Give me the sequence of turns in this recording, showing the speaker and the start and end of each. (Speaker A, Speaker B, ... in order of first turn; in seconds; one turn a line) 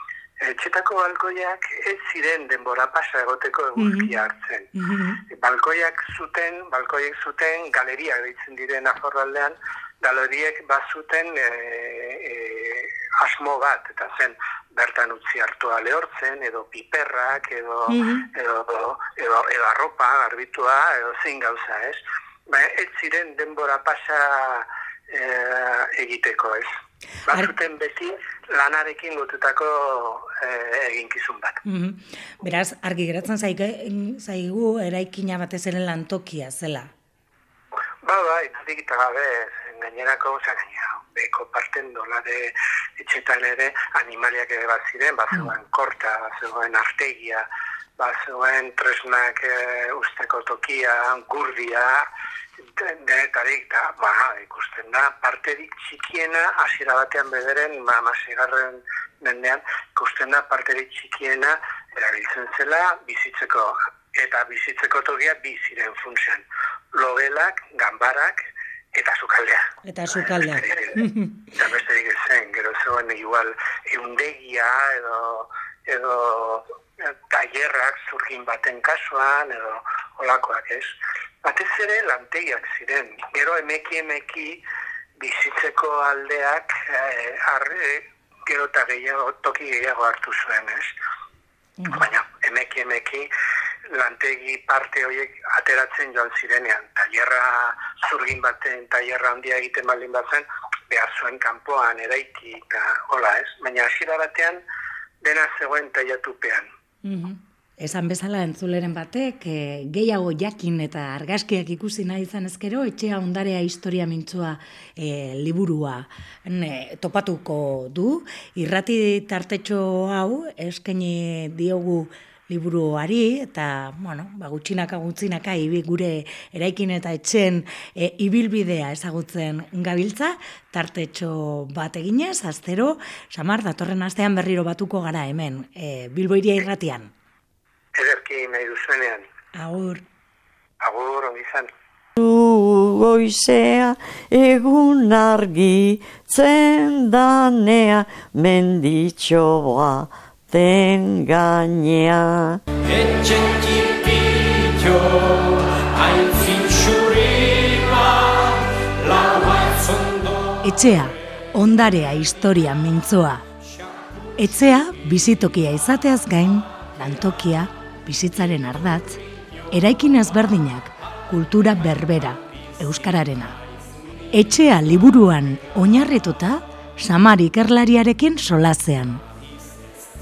Speaker A: 0.4-4.7
Speaker B: 3.8-4.1
Speaker B: 4.8-5.2
Speaker A: 5.3-26.7
Speaker B: 17.9-18.3
Speaker A: 27.3-31.6
Speaker B: 31.7-36.9
Speaker A: 38.0-47.5
Speaker A: 48.0-52.0
Speaker A: 52.8-70.9
Speaker B: 69.8-71.5
Speaker A: 71.6-76.6
Speaker A: 77.3-84.6
Speaker A: 85.2-90.9
Speaker B: 91.8-92.1
Speaker A: 91.9-93.3
Speaker A: 93.9-104.6
Speaker A: 105.2-106.7
Speaker B: 107.0-137.1
Speaker A: 137.9-139.3
Speaker B: 139.6-140.0
Speaker A: 140.8-141.7
Speaker C: 142.2-152.6
Speaker D: 152.9-160.5
Speaker B: 160.6-163.5
Speaker B: 164.4-173.6
Speaker B: 174.3-179.2